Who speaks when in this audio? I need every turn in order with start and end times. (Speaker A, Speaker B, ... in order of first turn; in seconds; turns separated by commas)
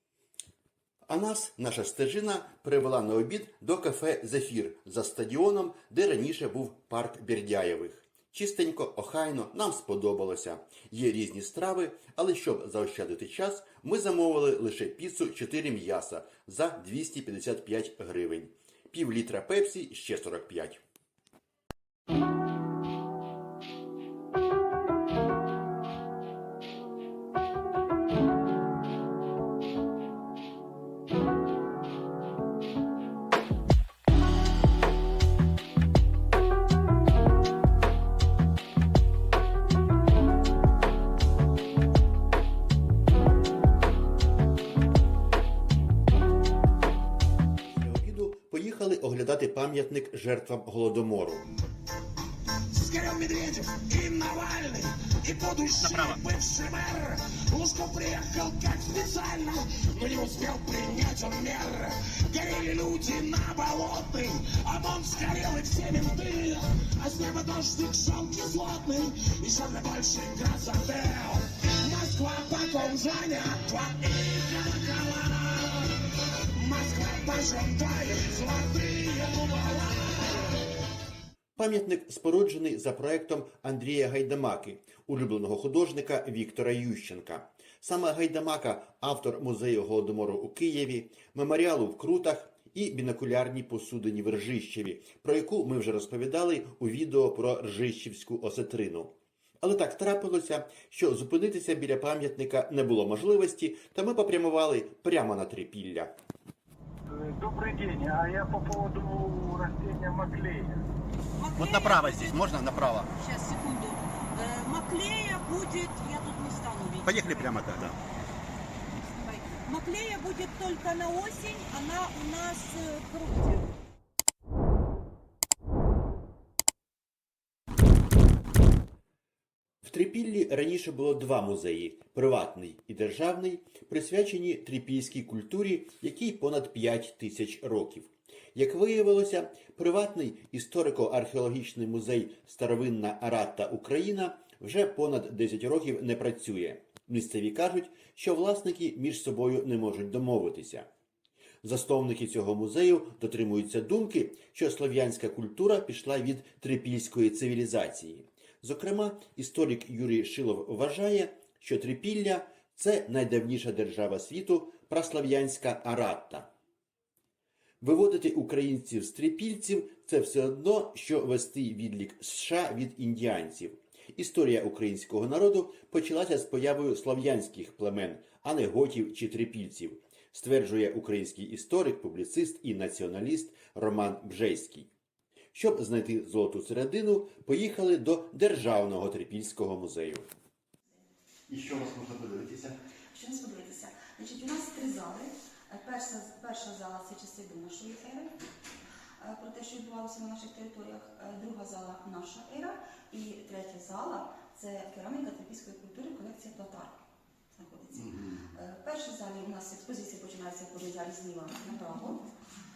Speaker A: 1.1-20.8, Speaker A: 47.7-51.5, Speaker B: 52.7-76.0, Speaker B: 76.5-80.7, Speaker A: 81.5-106.1, Speaker C: 107.1-110.8, Speaker D: 111.4-112.4, Speaker A: 111.6-113.1, Speaker D: 113.2-117.4, Speaker A: 117.0-118.0, Speaker D: 119.0-123.7, Speaker A: 129.8-150.9, Speaker A: 151.6-166.5, Speaker A: 167.8-184.9, Speaker A: 185.5-190.2, Speaker A: 191.5-192.8, Speaker E: 193.1-198.3, Speaker E: 199.2-207.0, Speaker E: 207.5-212.2